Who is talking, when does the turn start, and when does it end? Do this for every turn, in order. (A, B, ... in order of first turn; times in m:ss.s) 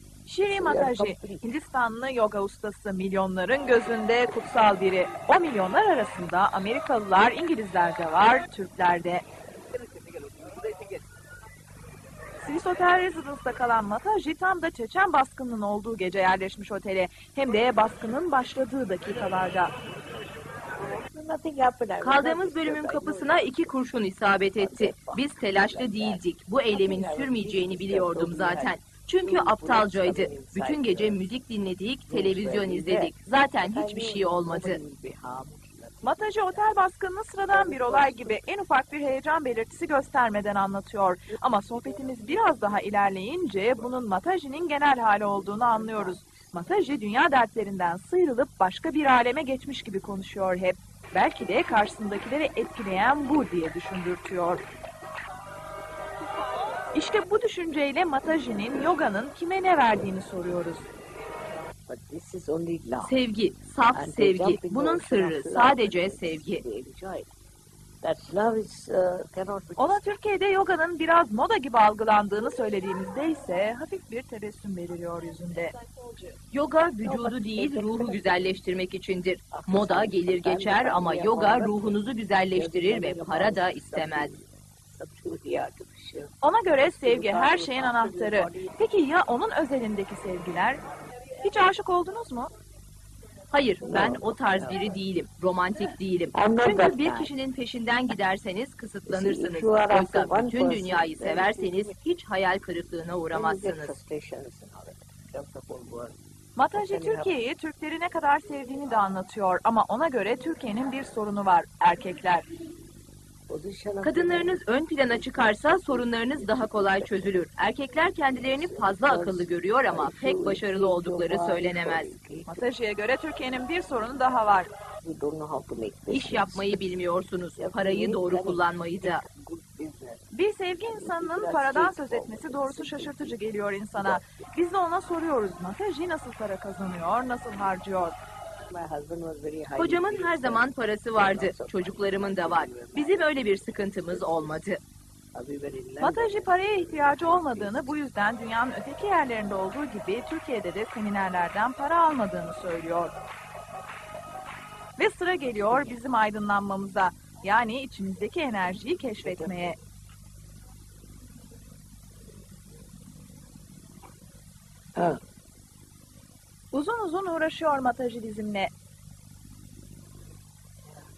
0:00.2-0:09.2 A
0:00.5-0:01.5 B
0:12.4-0:19.7 A
0:20.8-0:23.7 B
0:22.0-0:34.8 C
0:24.5-0:31.2 B
0:32.1-0:36.8 B
0:36.0-0:54.6 A
0:37.5-0:38.5 B
0:41.3-0:42.4 B
0:45.2-0:46.8 B
0:56.9-1:00.8 A
1:01.9-1:03.2 B
1:03.0-1:06.6 C
1:03.9-1:07.3 B
1:08.0-1:10.0 B
1:09.8-1:15.7 A
1:16.5-1:24.4 C
1:17.0-1:18.5 B
1:19.5-1:28.8 B
1:26.4-1:30.8 A
1:31.4-1:32.5 A
1:33.5-1:44.0 C
1:33.8-1:35.0 B
1:36.3-1:37.3 B
1:39.1-1:42.0 B
1:43.3-1:46.2 B
1:46.6-1:52.4 A
1:46.7-1:47.3 B
1:53.5-1:57.4 B
1:54.0-2:02.1 C
1:58.4-2:02.6 B
2:02.4-2:04.7 A
2:05.0-2:07.0 B
2:06.1-2:09.2 C
2:07.6-2:10.3 B
2:10.3-2:18.2 A
2:10.9-2:14.5 B
2:18.7-2:24.7 B
2:19.7-2:24.8 C
2:25.3-2:28.0 B
2:26.0-2:33.1 A
2:35.0-2:39.8 A
2:35.5-2:36.0 B
2:39.2-2:39.6 B
2:45.0-2:45.2 B
2:46.7-2:48.7 A